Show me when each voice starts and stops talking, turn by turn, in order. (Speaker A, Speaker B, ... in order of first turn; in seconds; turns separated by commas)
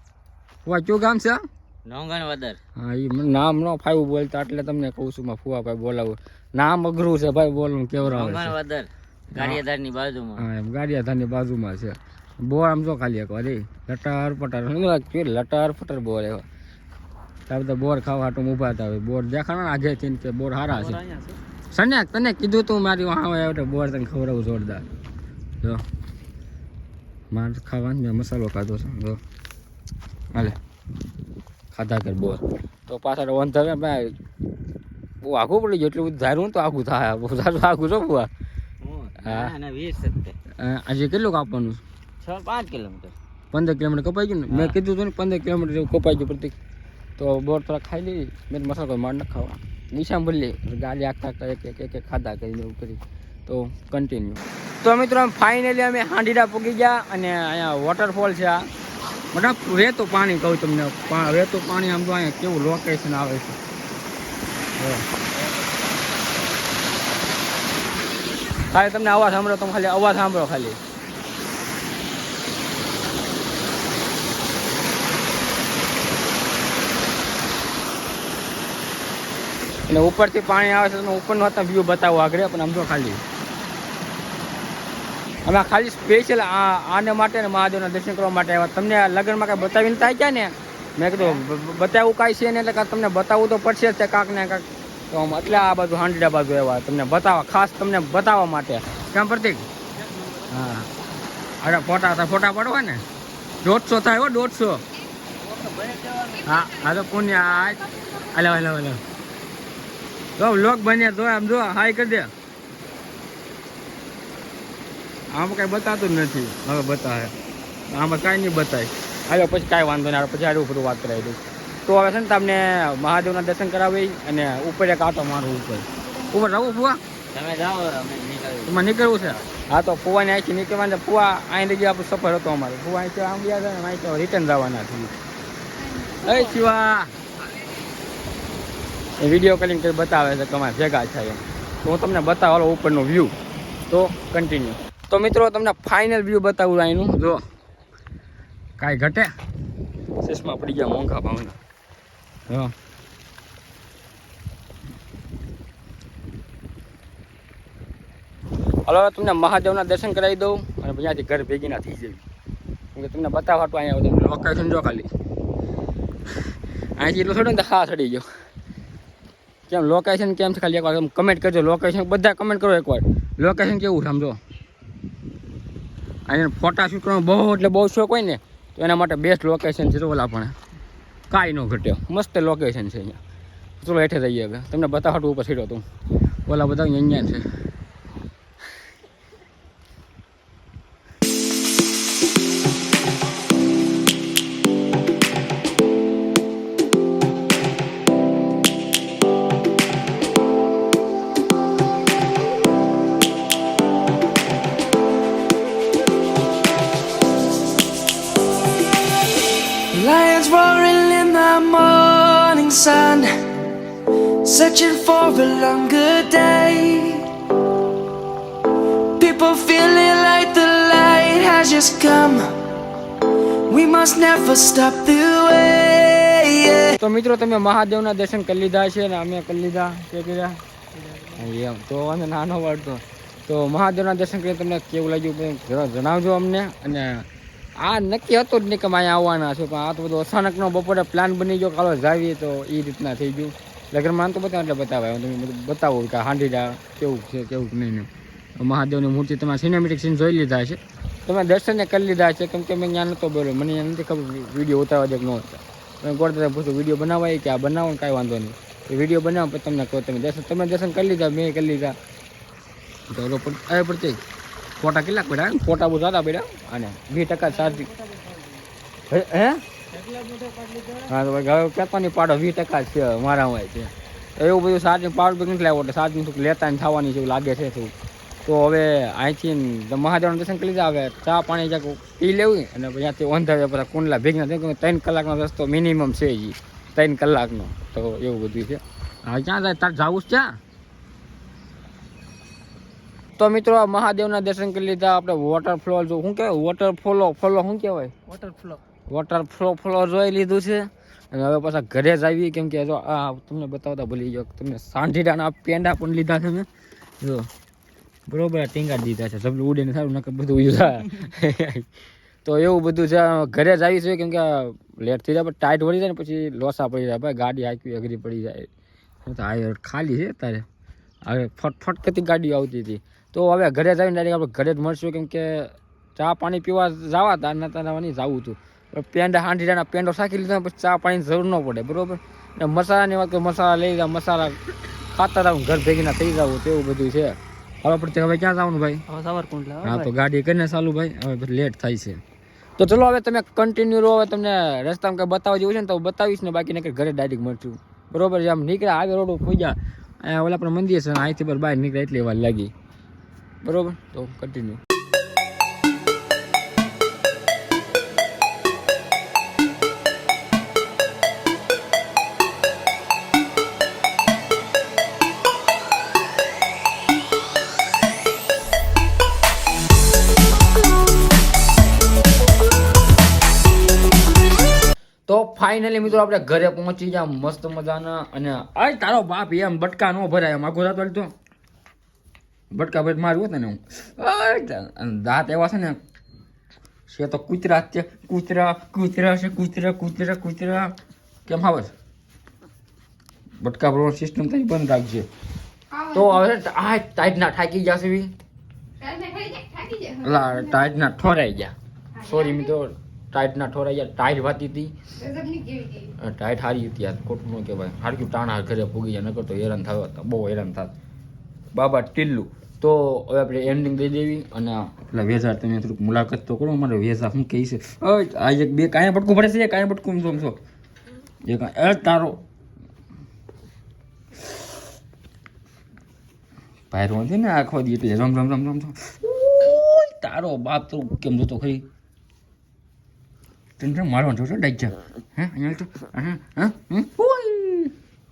Speaker A: 0.6-1.4, Speaker B: 1.9-2.6, Speaker A: 2.8-8.6, Speaker B: 8.0-10.4, Speaker A: 9.3-9.6, Speaker A: 10.4-16.4, Speaker A: 17.5-21.0, Speaker C: 20.7-21.4, Speaker A: 21.7-24.9, Speaker A: 27.3-29.2, Speaker A: 31.7-34.1, Speaker A: 35.2-38.3, Speaker B: 38.8-40.4, Speaker A: 39.2-39.5, Speaker A: 40.6-41.8, Speaker B: 42.2-43.1, Speaker A: 43.5-46.5, Speaker B: 44.5-44.8, Speaker A: 47.2-58.7, Speaker A: 59.3-63.6, Speaker A: 64.8-65.0, Speaker A: 68.7-70.8, Speaker A: 79.9-83.2, Speaker A: 85.5-99.7, Speaker A: 100.5-100.9, Speaker A: 101.6-103.0, Speaker A: 103.6-104.8, Speaker B: 105.6-106.4, Speaker A: 106.4-109.0, Speaker A: 110.4-112.3, Speaker A: 115.3-117.3, Speaker A: 117.9-127.0, Speaker B: 127.3-129.4, Speaker A: 128.7-135.1, Speaker A: 136.2-137.1, Speaker A: 139.2-143.3, Speaker A: 143.9-147.4, Speaker A: 148.8-149.3, Speaker A: 150.2-151.6, Speaker A: 152.5-152.7, Speaker A: 158.8-162.2, Speaker A: 162.9-165.1, Speaker A: 166.9-168.2, Speaker A: 169.7-174.4, Speaker A: 176.3-180.5, Speaker A: 181.3-183.2, Speaker A: 183.8-185.8, Speaker A: 186.5-187.4, Speaker D: 209.9-213.5, Speaker D: 214.4-217.3, Speaker D: 219.2-222.6, Speaker D: 223.7-227.0, Speaker A: 227.0-230.6, Speaker A: 231.3-237.2, Speaker A: 237.8-261.9, Speaker A: 263.1-264.2, Speaker A: 264.8-267.9, Speaker C: 267.6-268.4, Speaker A: 269.1-269.6, Speaker C: 270.0-271.0, Speaker A: 271.1-277.9, Speaker A: 278.4-290.5, Speaker A: 293.4-298.1, Speaker C: 298.3-298.8, Speaker A: 299.1-306.7, Speaker A: 307.2-307.5, Speaker A: 308.3-311.9, Speaker A: 312.4-318.7, Speaker A: 319.2-320.6, Speaker A: 321.2-334.6, Speaker A: 335.1-339.0, Speaker C: 339.1-340.1, Speaker A: 339.8-342.2, Speaker A: 342.8-352.7, Speaker A: 353.6-354.8, Speaker A: 375.3-381.3, Speaker A: 382.7-386.0, Speaker A: 387.1-390.9, Speaker A: 391.5-391.9, Speaker A: 393.6-395.2, Speaker A: 396.0-398.3, Speaker C: 399.0-400.2, Speaker A: 400.1-404.9, Speaker C: 405.2-406.1, Speaker A: 406.1-410.9, Speaker A: 411.7-420.6, Speaker A: 421.4-422.4, Speaker A: 426.9-431.9, Speaker A: 433.8-437.9